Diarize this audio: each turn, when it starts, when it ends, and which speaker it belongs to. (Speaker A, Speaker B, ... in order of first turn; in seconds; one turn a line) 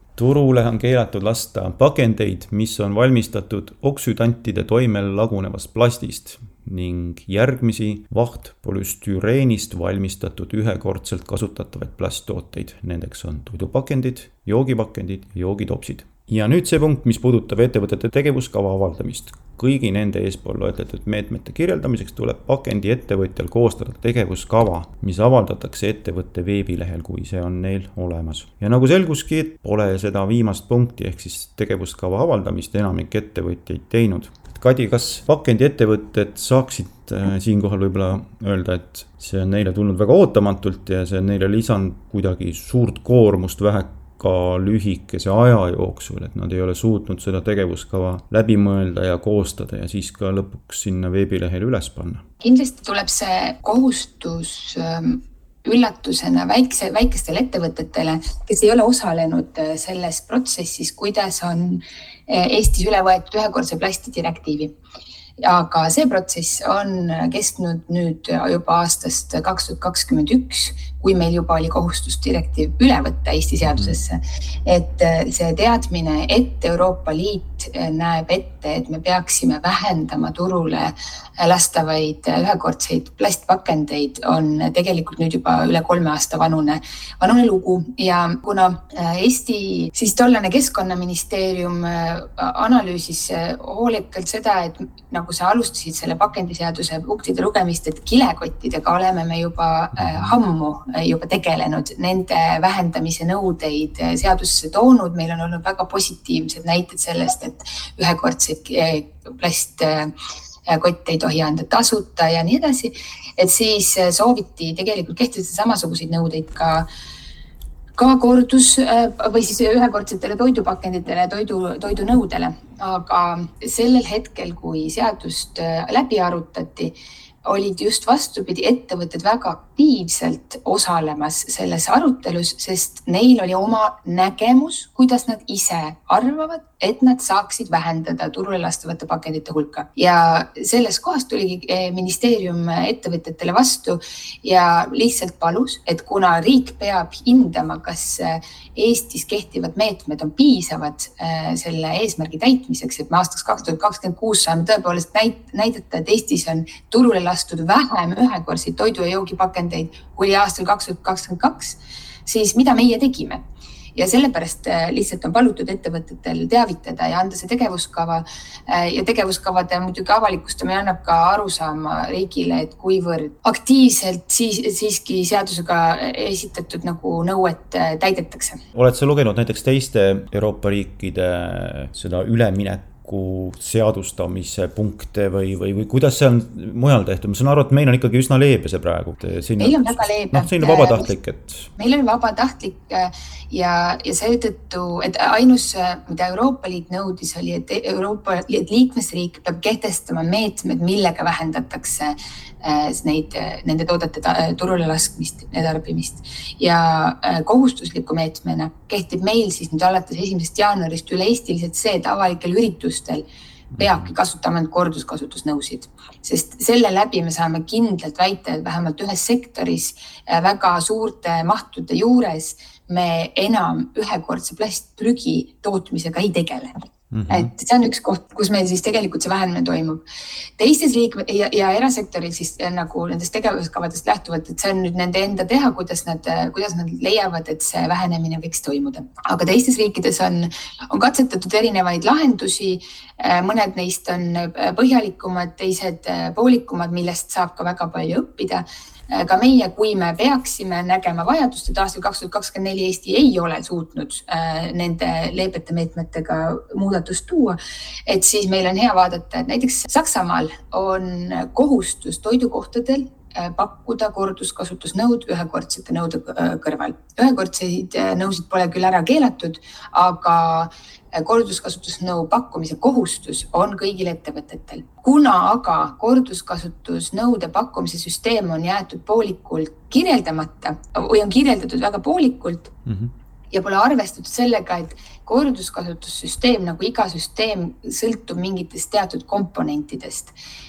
Speaker A: 0.2-52.2
Speaker B: 52.4-64.7
Speaker B: 65.4-110.1
Speaker A: 100.0-100.3
Speaker B: 110.7-116.8
Speaker B: 118.0-126.9
Speaker B: 127.5-163.4
Speaker B: 163.9-178.6
Speaker A: 178.7-191.7
Speaker B: 189.6-191.1
Speaker B: 191.8-213.2
Speaker A: 213.7-214.1
Speaker B: 213.8-226.7
Speaker A: 227.1-227.5
Speaker B: 227.3-230.0
Speaker B: 230.6-257.6
Speaker B: 258.1-282.7
Speaker A: 282.9-283.1
Speaker B: 283.5-290.3